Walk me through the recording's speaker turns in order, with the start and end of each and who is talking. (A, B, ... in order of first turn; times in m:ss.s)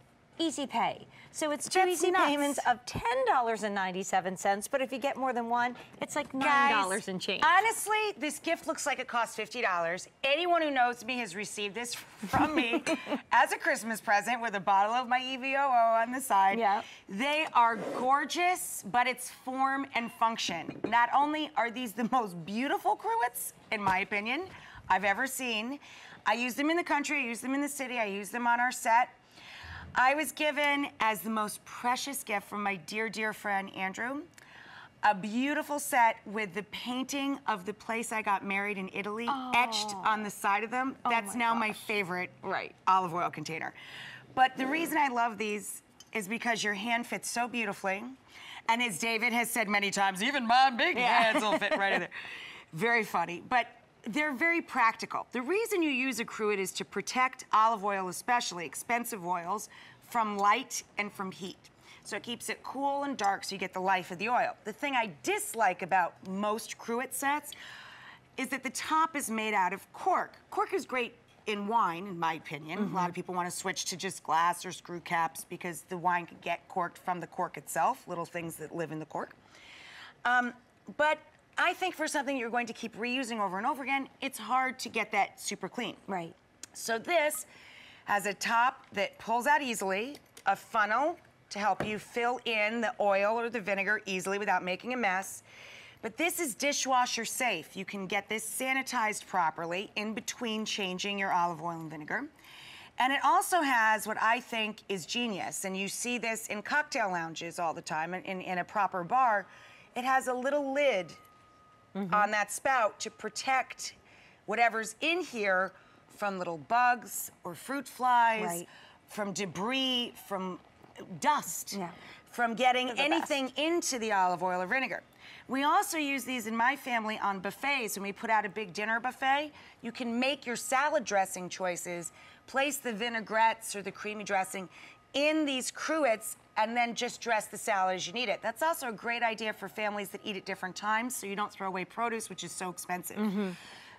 0:00.4-0:07.6 A
0:01.7-0:02.7 B
0:06.4-0:29.1 B
0:16.5-0:16.9 A
0:30.0-0:34.3 B
0:35.0-0:43.8 B
0:39.3-0:40.2 A
0:41.0-0:41.8 A
0:42.4-0:42.7 A
0:44.4-0:52.2 B
0:51.0-0:52.0 A
0:52.7-1:07.6 B
1:08.4-1:19.4 B
1:12.8-1:13.1 A
1:20.2-1:26.1 B
1:26.1-1:26.4 A
1:26.7-1:27.5 B
1:28.1-1:35.4 B
1:36.0-1:42.3 B
1:43.0-1:51.2 B
1:52.0-1:52.3 A
1:52.1-1:54.0 B
1:54.5-2:23.5 B
1:58.4-1:58.7 A
2:02.9-2:03.3 A
2:23.2-2:23.6 A